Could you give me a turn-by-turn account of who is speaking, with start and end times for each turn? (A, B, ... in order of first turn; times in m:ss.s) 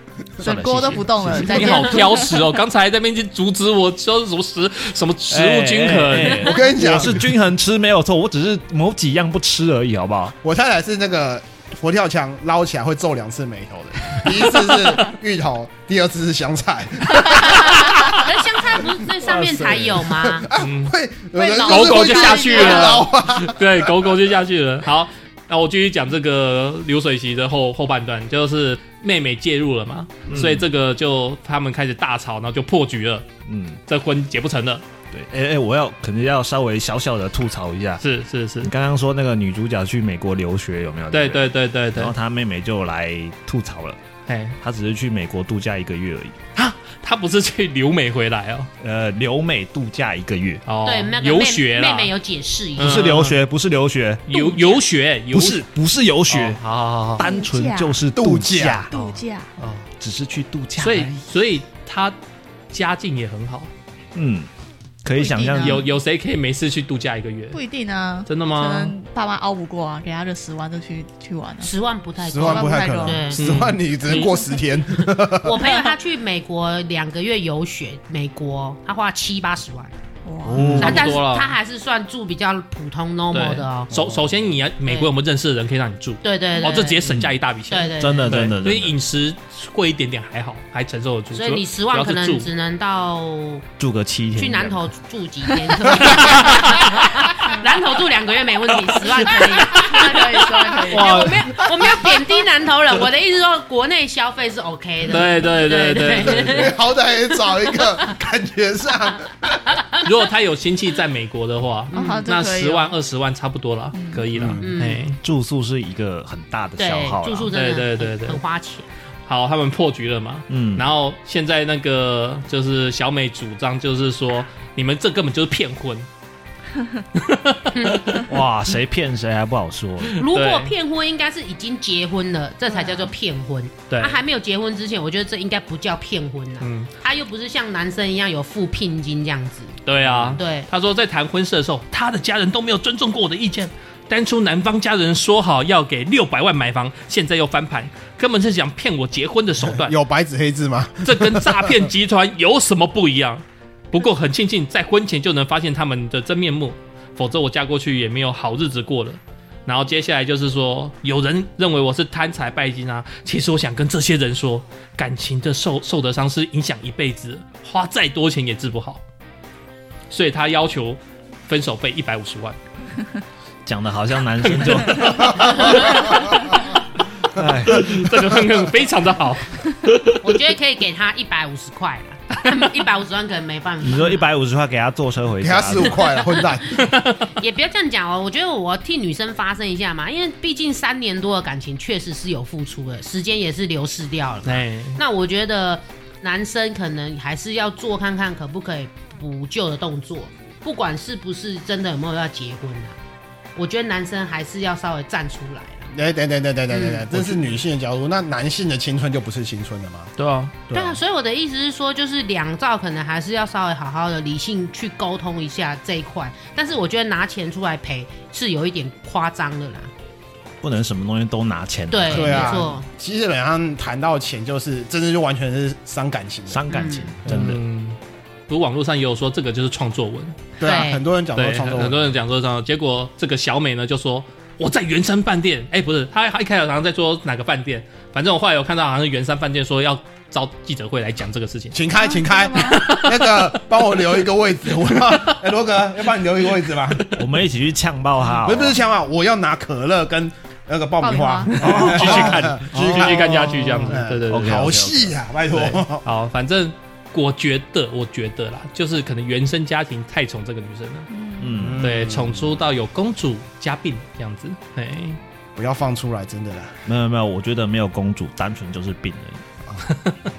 0:00.4-0:01.8 A
0:00.4-0:02.5 B
0:01.4-0:06.6 C
0:01.4-0:01.9 D
0:05.3-0:10.4 A
0:06.4-0:07.3 E
0:10.4-0:17.8 E
0:17.6-0:20.5 D
0:19.7-0:23.9 E
0:20.6-0:21.0 C
0:21.4-0:23.0 D
0:21.6-0:33.3 C
0:30.3-0:30.7 A
0:33.5-0:33.8 A
0:33.9-0:34.8 C
0:35.1-0:38.0 A
0:38.0-0:38.7 C
0:38.6-0:44.0 A
0:41.1-0:42.1 C
0:44.3-0:44.6 C
0:44.6-0:46.4 A
0:46.6-0:48.7 C
0:48.8-0:50.6 A
0:50.7-0:52.1 C
0:50.8-0:53.1 D
0:52.8-0:53.4 C
0:52.8-0:54.2 A
0:54.3-0:55.6 C
0:54.4-0:54.8 B
0:55.3-0:56.6 A
0:56.3-0:57.2 C
0:57.2-0:59.2 A
0:57.2-0:58.0 B
0:58.2-0:58.9 E
0:58.9-0:59.5 B
0:59.0-0:59.9 C
1:00.0-1:01.2 A
1:00.8-1:02.2 C
1:02.7-1:03.7 C
1:04.2-1:04.5 A
1:05.0-1:05.8 A
1:05.2-1:05.9 B
1:05.6-1:07.6 C
1:07.5-1:11.7 B
1:08.3-1:08.9 C
1:11.6-1:13.4 D
1:12.3-1:15.6 E
1:12.3-1:13.4 B
1:13.4-1:14.4 C
1:15.3-1:19.9 D
1:15.6-1:15.9 B
1:20.2-1:20.8 B
1:20.4-1:21.2 A
1:20.5-1:20.8 E
1:20.6-1:21.5 C
1:20.8-1:23.9 D
1:23.3-1:32.5 C
1:23.9-1:24.5 A
1:26.2-1:27.1 D
1:27.0-1:27.4 A
1:27.7-1:28.4 D
1:28.0-1:29.0 A
1:31.3-1:33.7 D
1:33.8-1:34.8 A
1:34.4-1:46.7 D
1:36.1-1:36.9 C
1:39.1-1:41.3 B
1:40.9-1:41.3 A
1:45.1-1:46.7 C
1:46.2-1:49.8 E
1:49.7-1:50.0 D
1:50.0-1:55.2 C
1:51.9-1:52.2 D
1:51.9-1:53.0 B
1:53.9-1:54.2 B
1:54.3-1:54.7 E
1:54.6-1:55.1 D
1:55.2-1:57.5 A
1:56.8-1:58.9 D
1:57.5-1:58.4 C
1:59.3-2:06.1 C
2:00.5-2:00.8 A
2:07.1-2:08.3 C
2:07.7-2:08.2 D
2:08.2-2:10.2 A
2:10.1-2:10.7 C
2:10.2-2:19.8 D
2:13.9-2:14.2 C
2:16.6-2:16.9 C
2:19.9-2:30.0 C
2:20.1-2:20.4 E
2:20.4-2:20.7 D
2:29.8-2:31.9 E
2:31.0-2:49.0 C
2:50.1-2:52.6 C
2:53.7-2:55.9 A
2:54.4-2:56.8 C
2:55.1-2:56.5 E
2:57.3-2:58.1 A
2:57.7-3:00.2 C
3:00.2-3:04.2 D
3:03.8-3:06.1 A
3:05.4-3:06.8 E
3:06.8-3:07.3 C
3:07.4-3:23.0 D
3:14.4-3:15.0 C
3:23.6-3:25.9 D
3:25.9-3:30.1 E
3:26.7-3:27.2 D
3:30.2-3:30.5 C
3:30.7-3:31.0 E
3:30.7-3:39.9 D
3:40.6-3:42.7 A
3:41.9-3:42.9 D
3:42.1-3:46.7 E
3:46.5-3:47.6 A
3:46.7-3:47.1 D
3:47.2-3:50.5 C
3:50.6-3:52.1 E
3:50.6-3:51.0 D
3:51.4-4:01.8 C
4:01.7-4:07.1 E
4:02.0-4:02.9 B
4:02.6-4:03.6 C
4:07.1-4:08.8 A
4:08.4-4:16.0 E
4:11.0-4:11.6 B
4:11.6-4:15.2 A
4:11.6-4:14.8 C
4:15.5-4:21.1 C
4:21.1-4:21.7 B
4:21.4-4:21.8 A
4:21.6-4:22.6 E
4:21.8-4:25.2 C
4:25.6-4:26.8 E
4:26.9-4:29.4 A